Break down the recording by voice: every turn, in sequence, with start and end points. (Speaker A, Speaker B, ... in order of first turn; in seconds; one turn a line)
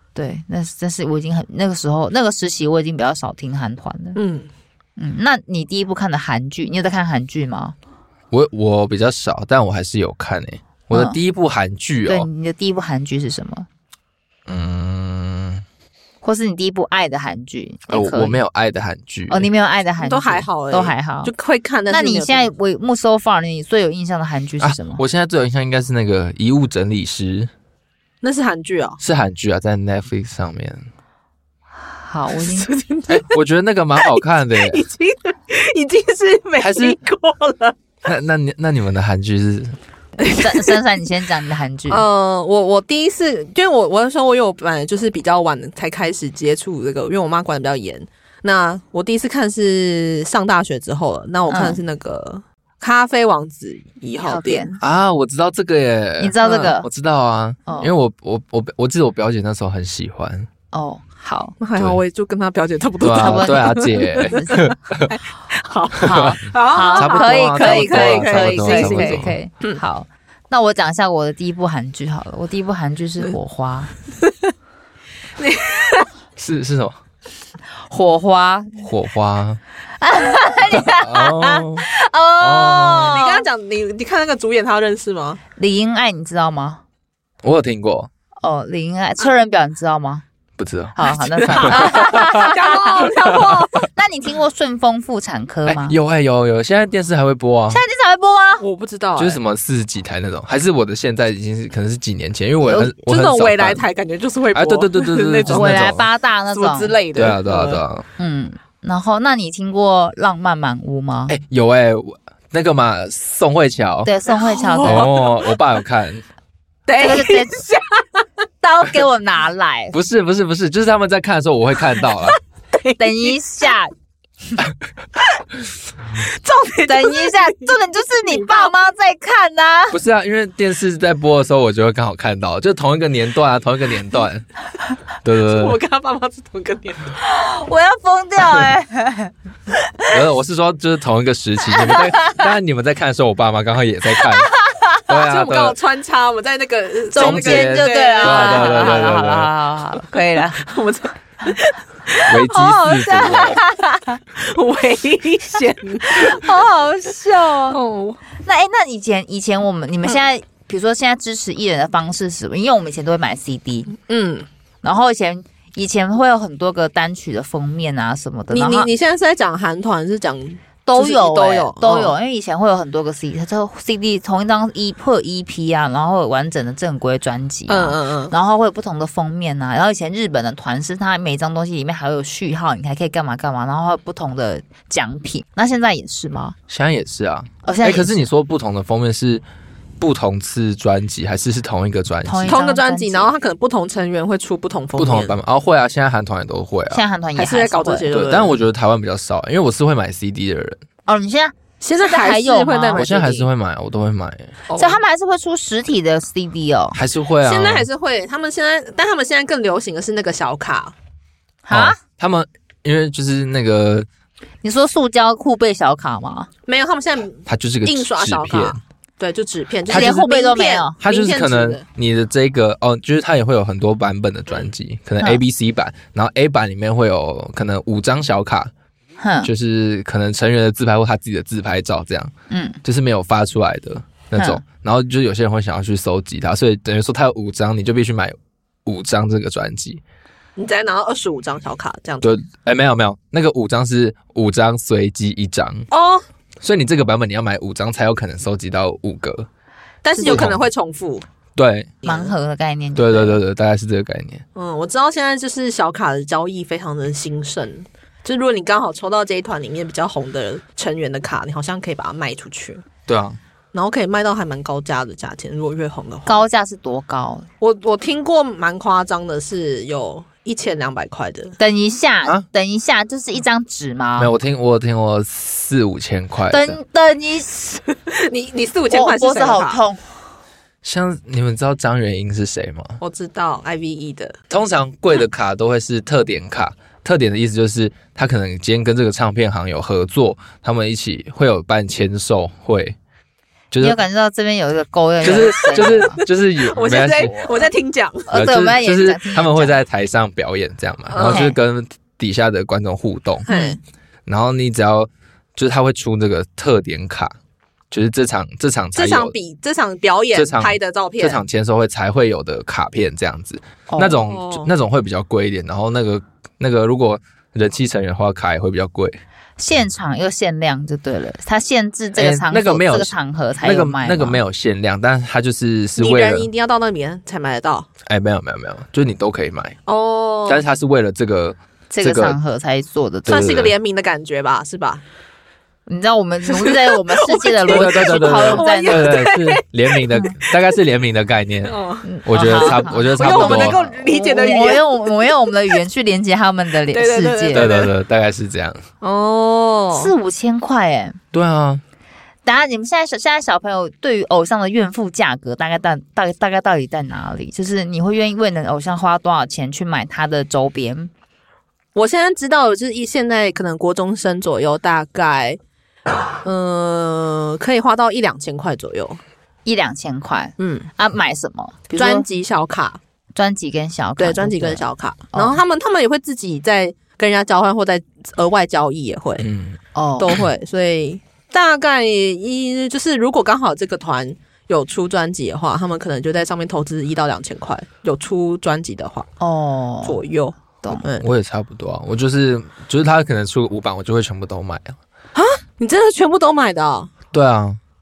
Speaker A: 0.1-4.2
Speaker B: 4.1-4.5
Speaker A: 5.0-7.7
Speaker C: 8.3-12.3
Speaker A: 10.9-11.2
Speaker A: 12.1-13.7
Speaker C: 14.5-15.6
Speaker A: 16.2-18.4
Speaker C: 17.9-19.5
Speaker A: 19.3-21.3
Speaker B: 20.0-22.5
Speaker A: 21.9-25.0
Speaker C: 24.6-27.5
Speaker B: 28.2-29.0
Speaker C: 29.0-30.9
Speaker A: 31.9-32.7
Speaker B: 32.3-33.4
Speaker C: 33.1-34.8
Speaker B: 34.0-37.8
Speaker C: 36.6-37.0
Speaker C: 38.0-39.8
Speaker A: 40.2-42.0
Speaker B: 40.2-40.8
Speaker B: 41.9-54.8
Speaker A: 51.5-51.8
Speaker A: 54.2-54.8
Speaker C: 54.8-60.5
Speaker A: 56.2-56.9
Speaker B: 56.4-56.7
Speaker A: 57.6-57.9
Speaker A: 60.7-61.6
Speaker B: 61.6-69.8
Speaker C: 63.0-65.1
Speaker A: 63.1-64.7
Speaker A: 66.0-73.9
Speaker C: 66.1-69.3
Speaker B: 75.4-76.1
Speaker C: 76.4-77.0
Speaker A: 77.9-78.9
Speaker C: 78.8-79.6
Speaker A: 80.0-83.4
Speaker C: 80.7-81.9
Speaker C: 82.4-83.1
Speaker B: 82.9-85.4
Speaker A: 85.6-86.8
Speaker C: 87.4-88.1
Speaker A: 88.4-90.2
Speaker C: 90.6-92.5
Speaker A: 91.0-93.3
Speaker B: 91.2-93.8
Speaker C: 93.2-93.6
Speaker A: 93.9-96.0
Speaker C: 95.7-97.8
Speaker A: 97.7-98.6
Speaker B: 98.6-99.4
Speaker C: 99.2-103.8
Speaker B: 103.0-105.9
Speaker C: 104.5-106.0
Speaker A: 105.5-106.9
Speaker B: 106.5-107.8
Speaker C: 107.1-108.0
Speaker A: 108.2-111.3
Speaker C: 111.3-114.1
Speaker A: 114.0-115.1
Speaker B: 114.3-115.5
Speaker C: 114.8-116.2
Speaker B: 116.9-118.2
Speaker A: 117.0-117.7
Speaker A: 118.6-119.9
Speaker C: 119.9-122.4
Speaker B: 122.2-123.7
Speaker A: 123.0-123.9
Speaker B: 126.2-128.7
Speaker A: 126.9-130.0
Speaker C: 129.9-134.5
Speaker C: 135.2-135.8
Speaker B: 135.4-137.1
Speaker A: 137.2-139.3
Speaker C: 140.1-144.5
Speaker A: 141.7-142.4
Speaker A: 144.4-145.0
Speaker C: 145.1-145.8
Speaker B: 145.1-149.0
Speaker A: 147.1-150.7
Speaker C: 147.1-149.5
Speaker B: 150.5-153.6
Speaker C: 152.3-153.6
Speaker A: 152.4-154.2
Speaker B: 154.3-156.6
Speaker A: 156.0-157.8
Speaker B: 157.7-158.2
Speaker A: 158.4-163.9
Speaker B: 164.1-164.5
Speaker A: 164.8-168.9
Speaker B: 168.5-172.2
Speaker A: 170.8-186.6
Speaker B: 177.7-178.3
Speaker C: 186.7-189.4
Speaker A: 187.6-188.2
Speaker C: 190.0-192.6
Speaker A: 192.2-193.3
Speaker B: 192.5-195.4
Speaker C: 195.0-197.0
Speaker A: 196.9-198.1
Speaker B: 197.4-198.6
Speaker C: 198.1-200.8
Speaker A: 201.1-203.1
Speaker B: 201.8-203.5
Speaker C: 202.9-204.6
Speaker B: 204.7-205.0
Speaker A: 204.8-207.0
Speaker C: 206.9-207.9
Speaker B: 207.4-210.9
Speaker A: 211.6-212.0
Speaker C: 211.7-214.1
Speaker A: 214.6-216.5
Speaker B: 216.7-221.8
Speaker C: 217.4-218.8
Speaker C: 219.9-220.2
Speaker A: 219.9-221.0
Speaker C: 221.0-228.7
Speaker A: 229.2-229.5
Speaker C: 229.4-232.3
Speaker A: 232.5-232.8
Speaker C: 232.8-240.0
Speaker A: 234.3-234.6
Speaker B: 240.6-242.3
Speaker C: 242.2-245.9
Speaker B: 245.9-246.2
Speaker C: 246.6-249.5
Speaker B: 250.0-251.2
Speaker A: 250.1-250.4
Speaker C: 250.2-250.6
Speaker C: 251.6-251.9
Speaker B: 252.0-252.3
Speaker A: 252.0-253.4
Speaker C: 252.9-254.4
Speaker B: 254.5-262.8
Speaker C: 263.1-263.4
Speaker B: 263.7-266.4
Speaker A: 266.2-267.5
Speaker B: 267.6-271.6
Speaker A: 271.6-274.3
Speaker C: 274.2-276.8
Speaker A: 276.5-277.8
Speaker B: 278.1-279.8
Speaker A: 278.9-280.0
Speaker C: 280.8-283.0
Speaker B: 283.0-284.4
Speaker C: 284.5-293.0
Speaker C: 293.7-294.0
Speaker A: 293.8-296.2
Speaker C: 295.2-297.4
Speaker B: 295.2-298.3
Speaker A: 298.3-299.7
Speaker C: 298.3-303.5
Speaker B: 301.1-301.5
Speaker A: 301.2-301.6
Speaker B: 303.5-303.8
Speaker A: 303.5-303.8
Speaker C: 304.2-307.4
Speaker C: 307.9-309.3
Speaker B: 308.9-311.4
Speaker C: 310.3-319.2
Speaker A: 313.9-314.2
Speaker B: 314.1-314.7
Speaker A: 319.6-324.4
Speaker C: 322.1-326.5
Speaker B: 325.9-327.9
Speaker C: 328.1-329.8
Speaker B: 329.9-330.6
Speaker C: 330.5-332.4
Speaker A: 331.9-333.6
Speaker C: 333.2-333.7
Speaker B: 333.3-335.0
Speaker A: 335.9-339.1
Speaker B: 336.5-340.6
Speaker C: 337.7-343.9
Speaker B: 341.6-345.8
Speaker A: 342.0-347.7
Speaker B: 346.9-347.9
Speaker C: 347.5-348.8
Speaker B: 349.0-350.1
Speaker A: 349.9-351.2
Speaker C: 351.3-351.8
Speaker A: 352.4-361.1
Speaker B: 361.9-365.6
Speaker B: 366.4-369.2
Speaker A: 369.6-372.2
Speaker B: 370.6-370.9
Speaker B: 371.9-373.0
Speaker A: 373.3-375.6
Speaker B: 374.2-379.5
Speaker C: 379.4-379.8
Speaker A: 379.9-380.4
Speaker B: 380.2-389.3
Speaker A: 389.4-390.2
Speaker B: 390.0-391.3
Speaker C: 391.2-395.0
Speaker B: 395.3-397.1
Speaker C: 397.3-397.8